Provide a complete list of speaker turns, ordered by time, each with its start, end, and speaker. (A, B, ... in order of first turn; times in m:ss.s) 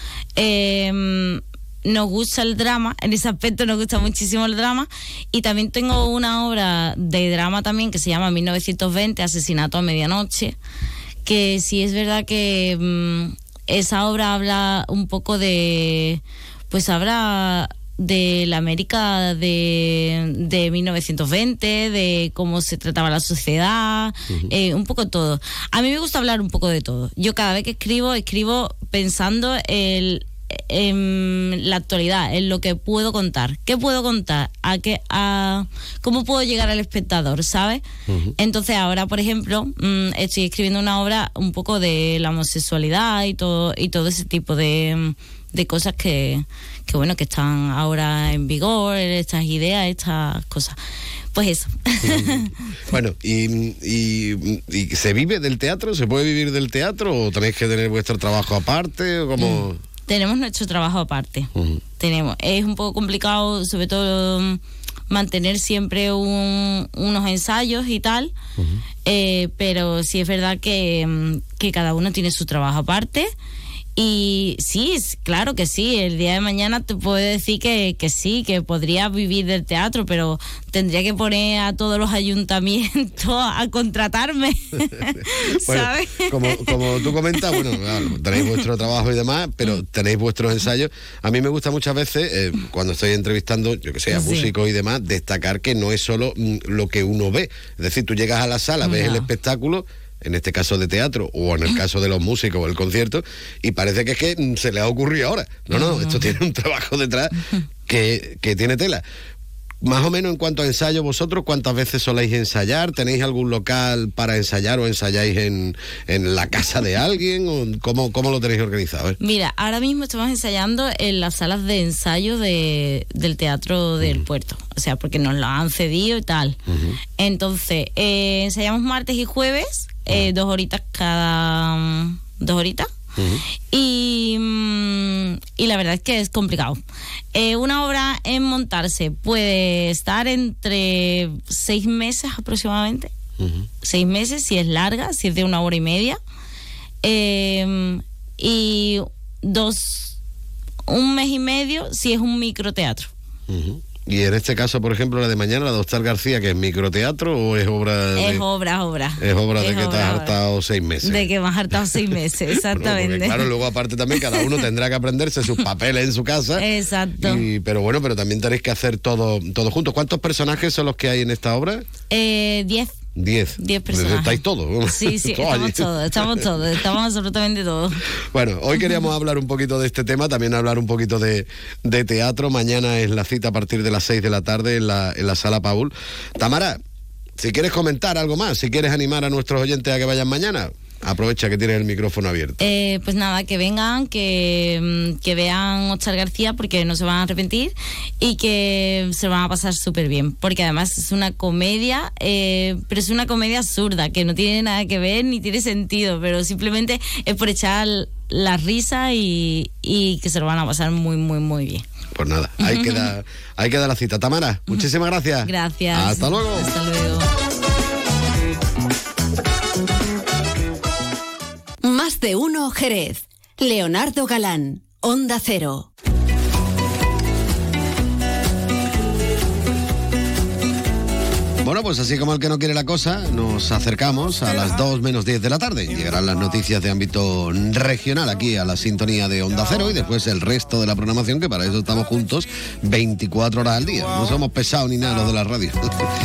0:00.4-0:10.5 A
0:11.2-0:37.8 A
0:38.1-0:38.3 B
0:38.4-0:50.8 A
0:51.3-0:52.5 A
0:52.0-0:52.4 B
0:52.9-0:59.8 B
0:59.4-1:08.3 A
1:09.0-1:13.3 A
1:14.0-1:28.6 A
1:25.6-1:47.3 B
1:34.1-1:34.5 A
1:38.8-1:39.3 A
1:45.7-1:46.3 A
1:47.9-1:49.0 B
1:49.8-1:59.2 B
1:59.2-2:06.6 A
2:06.7-2:07.0 B
2:07.2-2:12.9 A
2:13.2-2:13.4 B
2:13.7-2:16.8 A
2:17.3-2:23.1 A
2:23.4-2:23.7 B
2:23.8-2:26.2 A
2:27.0-2:30.2 A
2:30.9-2:33.1 A
2:33.5-2:38.4 B
2:38.2-2:40.4 A
2:39.2-2:41.3 B
2:41.0-2:43.5 A
2:42.7-2:46.6 B
2:44.2-2:44.6 A
2:46.6-2:47.4 A
2:47.2-2:51.9 B
2:52.1-2:52.9 A
2:53.2-2:56.4 B
2:53.6-2:58.0 A
2:58.3-3:06.8 B
3:07.4-3:12.6 B
3:12.6-3:31.8 A
3:32.1-3:36.7 B
3:32.6-3:33.1 A
3:35.4-3:37.3 A
3:41.8-3:45.9 C
3:51.6-4:06.0 B